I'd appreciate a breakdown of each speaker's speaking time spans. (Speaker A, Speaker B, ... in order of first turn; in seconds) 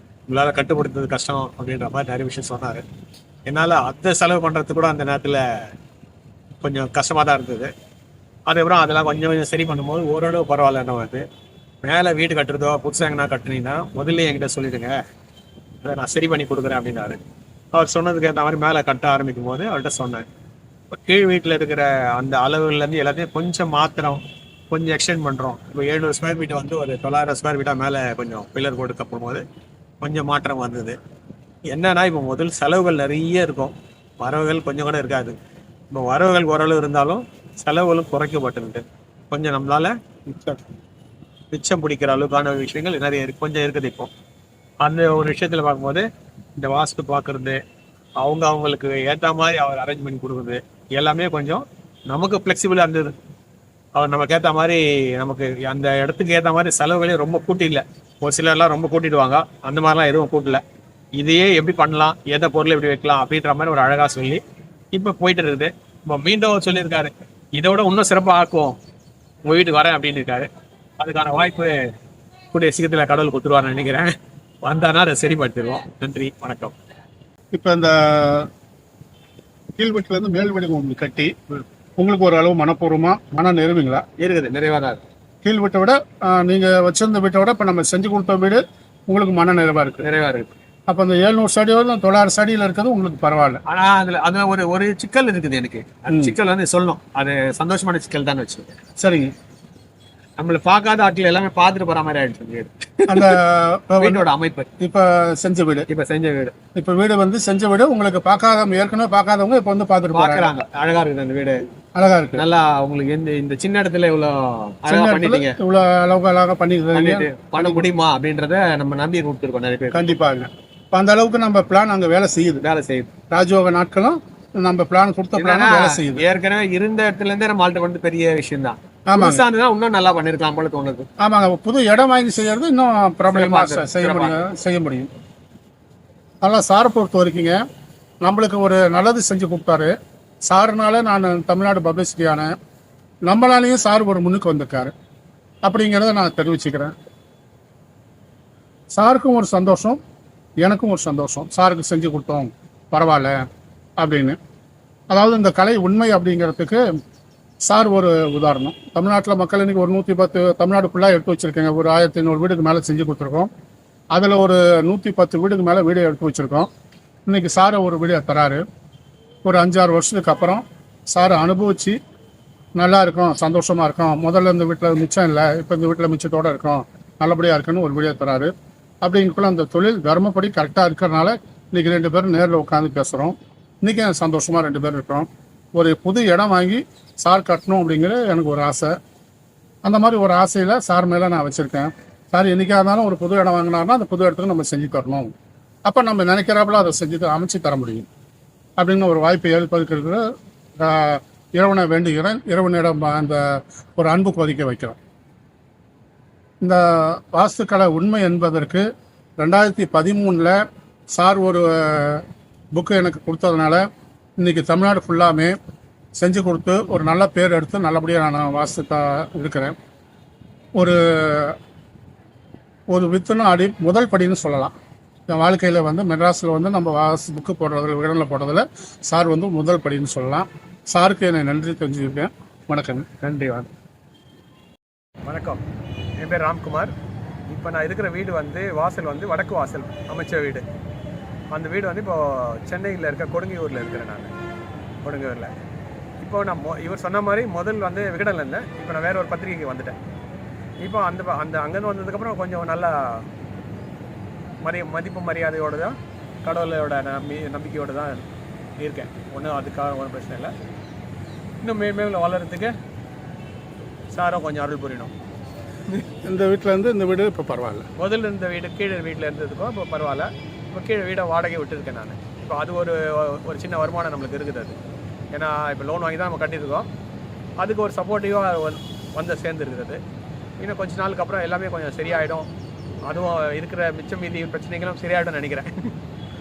Speaker A: 0.3-2.8, 3.5-5.4, 6.6-7.7, 8.5-11.2, 11.8-14.9, 15.8-17.2, 17.7-20.2, 20.9-29.4, 30.0-31.0, 31.7-35.4, 35.9-39.9, 41.5-44.1, 44.8-47.6, 48.2-53.1, 53.9-60.6, 61.2-64.4, 64.9-68.8, 69.5-70.5, 71.0-71.7, 72.5-76.7, 84.2-85.0, 90.0-90.5, 93.7-98.8, 100.4-103.4, 104.0-104.7, 105.9-106.5, 110.1-111.6, 112.3-115.5, 116.9-120.2, 122.6-123.1, 125.3-131.1, 133.2-134.4, 233.2-233.7, 235.2-235.6, 236.2-236.9, 237.5-240.6, 241.5-244.3, 245.0-245.5, 246.2-249.9, 250.8-253.2, 254.6-258.2, 258.8-260.5, 261.6-262.7, 264.1-265.1, 268.0-274.8, 275.3-276.9, 277.6-280.0, 280.6-282.5, 283.1-285.9
Speaker B: 40.3-40.6, 77.5-78.5, 79.7-84.0, 85.4-90.0, 90.9-93.6, 96.1-96.3, 99.0-99.3, 103.1-104.2, 104.8-105.9, 106.7-110.5, 112.0-112.4, 114.9-117.9, 119.9-122.6, 123.3-126.2, 129.1-129.4, 131.2-135.1, 136.4-137.6, 138.2-139.9, 140.4-142.5, 143.2-144.9, 145.6-146.9, 148.9-150.0, 150.6-153.4, 154.0-154.4, 155.1-156.8, 157.6-163.5, 164.1-166.7, 167.2-168.6, 169.4-172.0, 172.8-178.5, 179.0-188.9, 189.8-195.3, 195.8-198.1, 198.8-200.2, 200.8-205.0, 206.6-208.8, 209.4-210.6, 211.1-212.2, 212.7-213.8, 214.4-215.6, 216.2-219.8, 220.8-221.6, 222.9-224.7, 225.3-233.1, 266.2-267.9